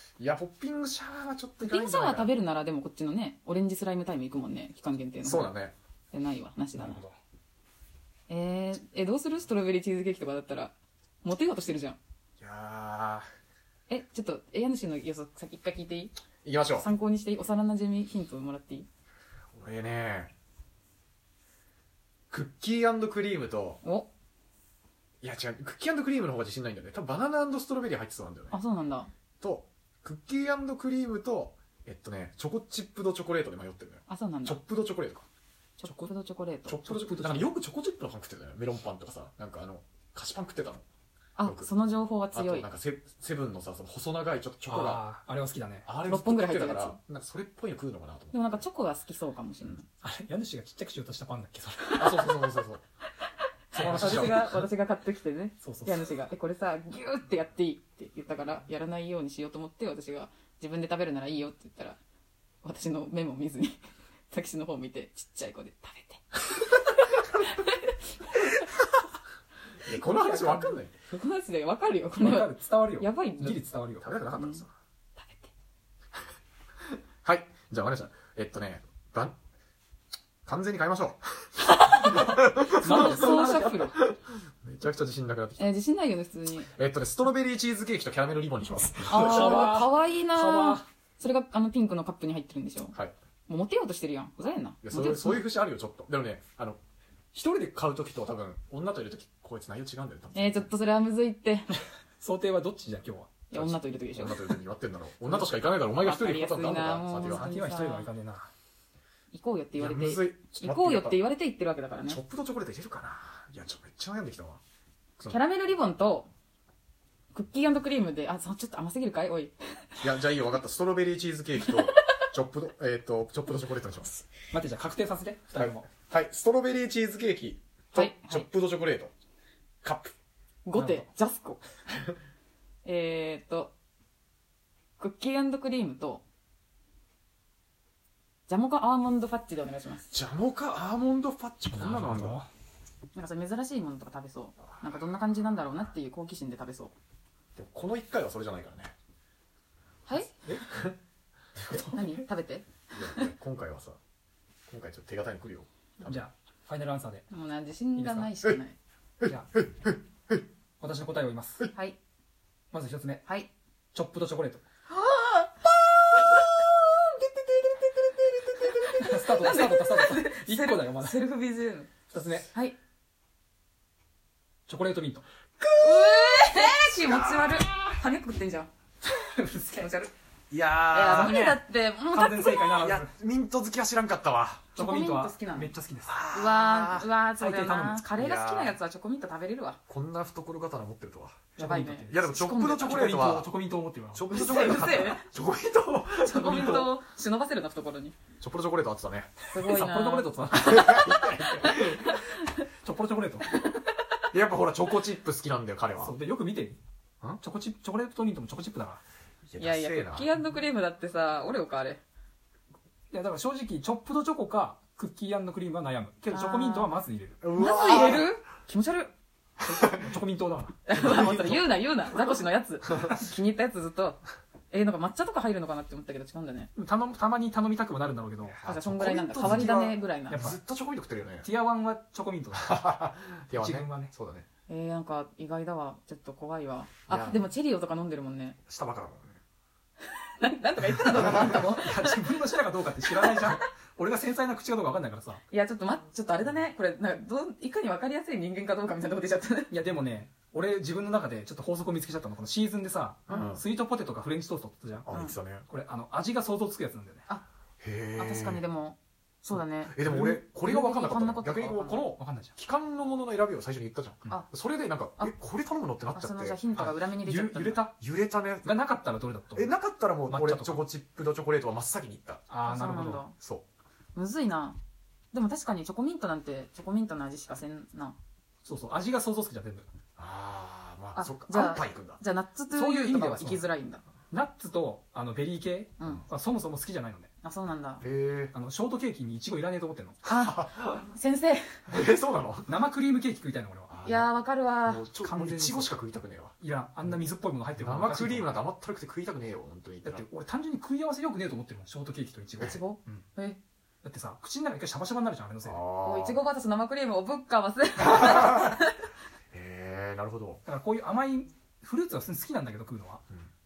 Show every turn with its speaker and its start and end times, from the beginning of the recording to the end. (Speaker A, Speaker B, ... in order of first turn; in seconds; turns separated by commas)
Speaker A: 0.2-2.3, Speaker B: 1.6-5.5, Speaker A: 5.2-5.8, Speaker B: 6.1-7.0, Speaker C: 6.8-7.2, Speaker B: 8.3-12.0, Speaker A: 12.4-13.3, Speaker B: 13.9-16.1, Speaker A: 16.4-16.9, Speaker B: 16.8-18.9, Speaker A: 19.5-20.3, Speaker A: 22.3-23.8, Speaker B: 23.8-24.1, Speaker A: 25.2-28.6, Speaker B: 28.5-29.1, Speaker A: 29.4-35.3, Speaker B: 34.1-34.6, Speaker B: 35.8-36.8, Speaker C: 35.8-36.1, Speaker A: 36.7-40.9, Speaker C: 36.8-37.5, Speaker B: 41.4-42.7, Speaker A: 41.4-41.7, Speaker A: 42.3-45.0, Speaker C: 44.7-45.9, Speaker A: 45.9-48.5, Speaker B: 46.0-47.0, Speaker B: 48.3-49.9, Speaker C: 50.0-52.1, Speaker A: 52.0-52.8, Speaker A: 53.7-54.5, Speaker C: 53.7-54.7, Speaker B: 54.0-62.0, Speaker C: 55.6-56.1, Speaker B: 62.6-68.8, Speaker A: 69.8-71.0, Speaker C: 70.0-70.6, Speaker B: 70.2-73.6, Speaker C: 72.2-74.1, Speaker A: 73.5-74.7, Speaker B: 74.3-74.7, Speaker B: 75.2-75.5, Speaker A: 77.2-79.4, Speaker A: 80.5-85.7, Speaker B: 81.7-82.3, Speaker C: 82.7-83.9, Speaker B: 82.8-84.0, Speaker B: 85.6-86.7, Speaker A: 86.7-89.7, Speaker B: 89.1-93.0, Speaker C: 89.1-90.8, Speaker B: 93.5-95.4, Speaker A: 94.8-96.8, Speaker A: 97.3-100.7, Speaker B: 100.3-101.7, Speaker C: 102.2-103.5, Speaker B: 103.5-104.5, Speaker A: 103.5-107.7, Speaker B: 105.3-108.1, Speaker C: 106.8-108.5, Speaker B: 109.3-112.2, Speaker A: 109.8-111.2, Speaker A: 112.0-114.6, Speaker B: 115.2-116.3, Speaker B: 117.3-120.0, Speaker A: 120.0-124.2, Speaker B: 121.7-122.1, Speaker C: 124.5-125.9, Speaker A: 125.6-129.1, Speaker B: 127.9-128.5, Speaker A: 129.8-130.1, Speaker B: 130.7-131.6, Speaker C: 130.7-131.1, Speaker B: 132.8-133.7, Speaker B: 135.0-136.2, Speaker B: 138.5-140.1, Speaker A: 140.1-142.4, Speaker C: 141.7-142.5, Speaker B: 143.1-146.9, Speaker A: 147.6-148.9, Speaker C: 150.4-150.7, Speaker A: 150.7-151.0, Speaker C: 151.6-152.2, Speaker B: 151.7-153.3, Speaker A: 152.9-154.0, Speaker A: 154.7-156.2, Speaker C: 156.0-157.3, Speaker B: 157.3-158.8, Speaker C: 158.0-158.4, Speaker A: 159.2-160.4, Speaker C: 159.2-159.6, Speaker C: 160.8-161.7, Speaker C: 162.7-163.2, Speaker C: 163.9-164.6, Speaker B: 164.9-166.7, Speaker A: 168.0-168.8, Speaker B: 168.5-171.9, Speaker C: 168.8-171.2, Speaker C: 172.1-172.5, Speaker C: 174.7-175.3, Speaker A: 175.6-177.9, Speaker B: 175.8-178.7, Speaker C: 179.0-180.0, Speaker B: 179.8-180.1, Speaker A: 180.5-181.4, Speaker B: 180.9-182.8, Speaker C: 181.0-183.1, Speaker A: 182.8-184.7, Speaker C: 184.8-186.2, Speaker B: 184.8-185.7, Speaker A: 186.1-187.1, Speaker B: 186.3-189.8, Speaker C: 187.4-188.1, Speaker A: 188.2-188.8, Speaker A: 189.9-191.5, Speaker C: 191.6-194.3, Speaker B: 191.6-192.8, Speaker A: 192.1-193.5, Speaker A: 194.1-196.9, Speaker B: 194.3-195.2, Speaker B: 196.2-198.2, Speaker C: 196.5-196.8, Speaker A: 198.4-199.4, Speaker B: 199.5-200.5, Speaker C: 199.6-202.1, Speaker A: 200.5-202.1, Speaker B: 201.7-202.6, Speaker C: 202.6-203.6, Speaker A: 204.3-206.2, Speaker C: 206.0-206.8, Speaker C: 207.4-209.0, Speaker A: 209.5-210.3, Speaker B: 209.6-212.0, Speaker C: 213.1-217.4, Speaker B: 216.3-217.0, Speaker A: 217.4-218.4, Speaker B: 217.5-219.1, Speaker C: 219.6-221.6, Speaker B: 220.9-226.7, Speaker A: 221.0-221.6, Speaker C: 226.8-230.6, Speaker A: 228.5-231.5, Speaker B: 228.6-230.5, Speaker C: 231.4-232.8, Speaker A: 232.5-234.5, Speaker C: 233.5-234.1, Speaker B: 234.7-238.6, Speaker A: 237.1-237.4, Speaker A: 238.7-239.4, Speaker B: 240.1-242.2, Speaker A: 241.1-241.7, Speaker C: 241.2-245.4, Speaker B: 243.2-243.6, Speaker B: 245.5-249.7, Speaker C: 249.7-255.1, Speaker A: 253.3-253.6, Speaker B: 253.3-253.6, Speaker A: 255.1-255.7, Speaker B: 255.1-255.4, Speaker C: 255.7-257.2, Speaker A: 257.8-258.6, Speaker B: 258.2-262.1, Speaker A: 259.5-266.7, Speaker C: 260.0-260.4, Speaker C: 262.2-262.5, Speaker B: 266.1-267.9, Speaker C: 266.8-268.0, Speaker A: 268.0-268.7, Speaker C: 268.6-269.7, Speaker A: 269.5-272.4, Speaker C: 270.3-270.8, Speaker C: 272.5-273.2, Speaker B: 272.7-273.4, Speaker A: 273.4-273.7, Speaker B: 274.1-274.8, Speaker B: 275.3-278.2, Speaker C: 278.6-279.9, Speaker A: 280.2-282.2, Speaker B: 281.2-284.0, Speaker C: 282.7-283.6, Speaker C: 284.3-287.3, Speaker B: 286.0-286.2, Speaker B: 287.4-288.0, Speaker A: 288.0-288.5, Speaker C: 288.5-290.2, Speaker B: 290.2-291.8, Speaker A: 290.3-291.1, Speaker A: 291.9-292.8, Speaker C: 292.7-293.9, Speaker A: 293.9-294.3, Speaker B: 294.0-295.1, Speaker A: 294.9-296.6, Speaker C: 295.1-295.9, Speaker C: 296.6-298.6, Speaker A: 297.8-300.2, Speaker C: 300.0-303.2, Speaker B: 302.6-303.6, Speaker C: 304.0-305.8, Speaker A: 305.6-306.4, Speaker B: 306.0-309.0, Speaker A: 308.0-308.7, Speaker A: 309.5-310.6, Speaker C: 310.6-313.3